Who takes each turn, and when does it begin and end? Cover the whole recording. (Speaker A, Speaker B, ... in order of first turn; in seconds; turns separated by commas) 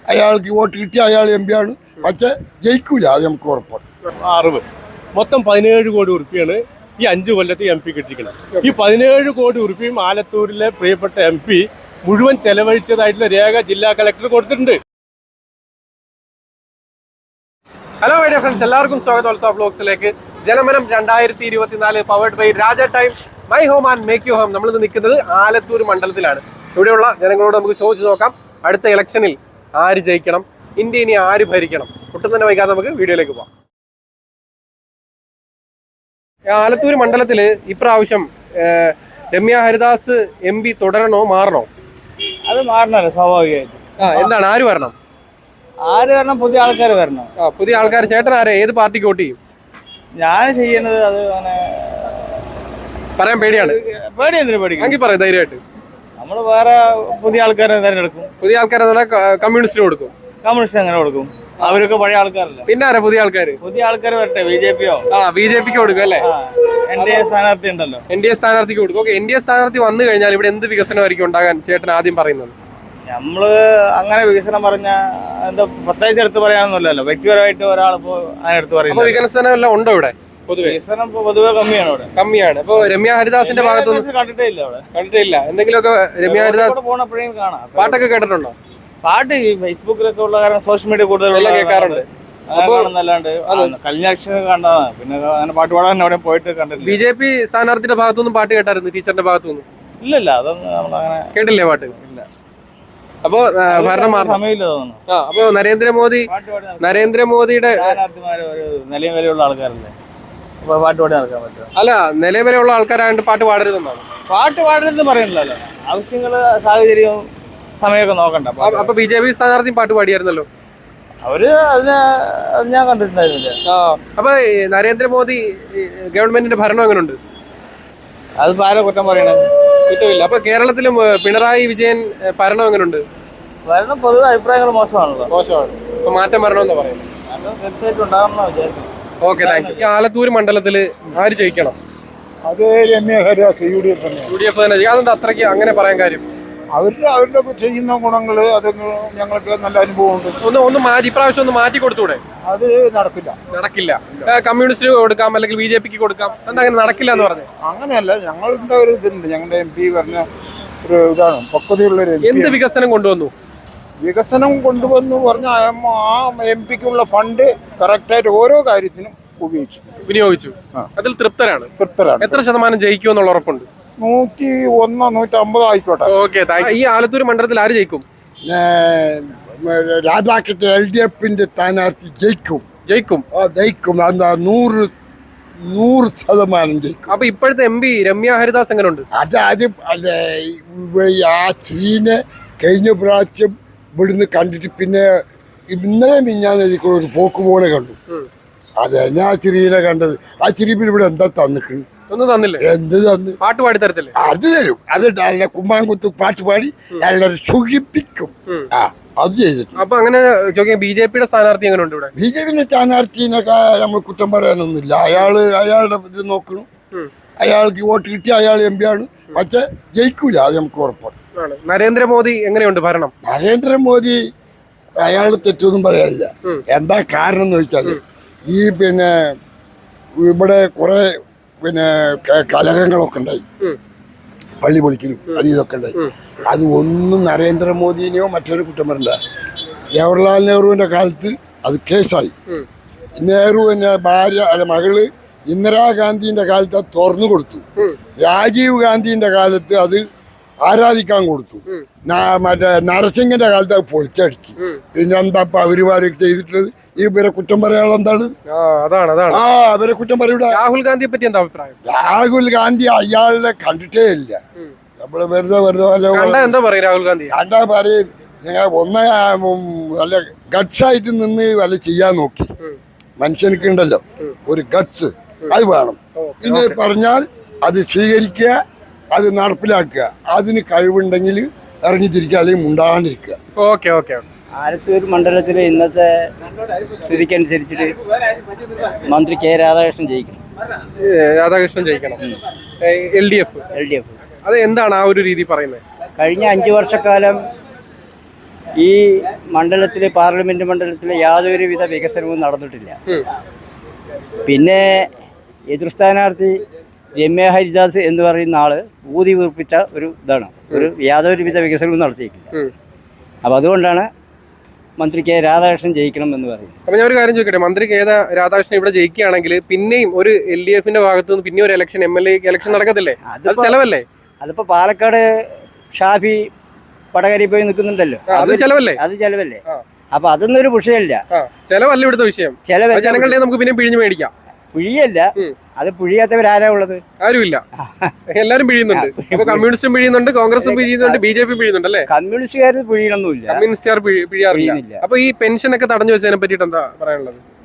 Speaker A: 0.1-3.8, Speaker B: 4.2-14.8, Speaker C: 18.0-33.5, Speaker C: 36.5-41.7, Speaker D: 42.4-44.3, Speaker C: 44.0-44.9, Speaker D: 45.8-47.3, Speaker C: 47.4-49.4, Speaker D: 50.1-52.4, Speaker C: 53.2-53.8, Speaker D: 53.4-55.0, Speaker C: 54.8-55.6, Speaker D: 56.2-58.3, Speaker C: 58.4-60.1, Speaker D: 60.4-62.6, Speaker C: 62.6-63.6, Speaker D: 63.6-65.0, Speaker C: 65.1-66.3, Speaker D: 66.2-68.0, Speaker C: 67.0-67.3, Speaker C: 68.1-72.5, Speaker D: 73.0-79.2, Speaker C: 78.9-80.8, Speaker D: 80.6-82.1, Speaker C: 82.2-84.1, Speaker D: 83.4-84.8, Speaker C: 84.9-86.8, Speaker D: 86.2-88.1, Speaker C: 87.8-88.5, Speaker D: 89.0-97.0, Speaker C: 91.3-92.9, Speaker C: 93.5-93.7, Speaker C: 96.8-99.6, Speaker D: 100.0-101.3, Speaker C: 101.3-101.9, Speaker D: 101.9-102.3, Speaker C: 103.2-104.4, Speaker D: 103.7-105.0, Speaker C: 105.1-106.3, Speaker D: 106.3-107.1, Speaker C: 106.8-108.0, Speaker D: 107.7-109.9, Speaker D: 110.6-111.7, Speaker C: 111.8-114.0, Speaker D: 114.3-118.9, Speaker C: 118.6-120.5, Speaker D: 121.2-123.6, Speaker C: 123.7-127.2, Speaker D: 128.4-129.4, Speaker C: 129.9-133.0, Speaker D: 133.6-135.3, Speaker C: 135.3-137.0, Speaker D: 137.3-139.8, Speaker C: 139.2-141.8, Speaker E: 142.4-144.3, Speaker C: 144.3-146.2, Speaker E: 146.7-150.4, Speaker C: 150.4-152.2, Speaker E: 152.4-153.4, Speaker C: 153.5-157.5, Speaker E: 157.6-160.2, Speaker E: 160.8-162.6, Speaker C: 162.2-163.3, Speaker E: 164.0-169.8, Speaker C: 170.1-171.7, Speaker E: 171.8-172.4, Speaker C: 172.2-173.7, Speaker E: 174.0-176.1, Speaker C: 176.0-178.0, Speaker A: 178.4-182.6, Speaker C: 182.8-183.2, Speaker A: 183.3-184.9, Speaker A: 185.6-187.2, Speaker C: 187.1-189.0, Speaker A: 189.1-195.1, Speaker A: 195.7-197.9, Speaker A: 198.8-201.8, Speaker C: 202.1-202.6, Speaker A: 202.6-203.4, Speaker C: 203.4-204.1, Speaker A: 204.2-209.8, Speaker C: 209.8-212.1, Speaker A: 212.2-216.7, Speaker A: 217.4-221.1, Speaker C: 221.3-223.1, Speaker A: 223.2-224.2, Speaker A: 225.0-229.3, Speaker A: 230.2-231.1, Speaker A: 231.6-233.4, Speaker A: 234.6-239.2, Speaker A: 239.9-242.3, Speaker A: 243.2-247.6, Speaker A: 248.2-250.0, Speaker A: 250.6-258.3, Speaker C: 258.5-259.4, Speaker A: 259.3-260.6, Speaker C: 260.5-261.8, Speaker A: 261.9-264.4, Speaker A: 265.0-266.5, Speaker C: 266.1-267.3, Speaker A: 267.3-272.5, Speaker A: 273.2-278.5, Speaker C: 276.1-276.8, Speaker A: 279.1-283.4, Speaker C: 283.6-284.2, Speaker F: 284.6-286.3, Speaker F: 287.0-287.9, Speaker F: 288.9-290.4, Speaker C: 291.0-292.2, Speaker C: 292.8-293.6, Speaker F: 293.7-294.1, Speaker C: 294.4-295.8, Speaker F: 296.2-297.4, Speaker F: 298.8-303.0, Speaker F: 304.4-305.1, Speaker F: 305.7-306.6, Speaker F: 307.2-312.5, Speaker F: 313.4-314.1, Speaker F: 315.0-316.7, Speaker C: 316.9-324.0, Speaker F: 323.3-323.8, Speaker F: 324.4-325.2, Speaker F: 325.9-326.5, Speaker F: 327.1-329.6, Speaker C: 328.3-329.0, Speaker F: 330.1-331.2, Speaker C: 331.3-334.3, Speaker F: 332.6-333.4, Speaker F: 334.7-337.0, Speaker C: 337.2-337.6, Speaker F: 337.8-338.1, Speaker C: 338.3-342.1, Speaker F: 338.9-339.6, Speaker F: 340.6-341.2, Speaker F: 342.1-343.6, Speaker C: 343.5-347.4, Speaker F: 344.5-345.0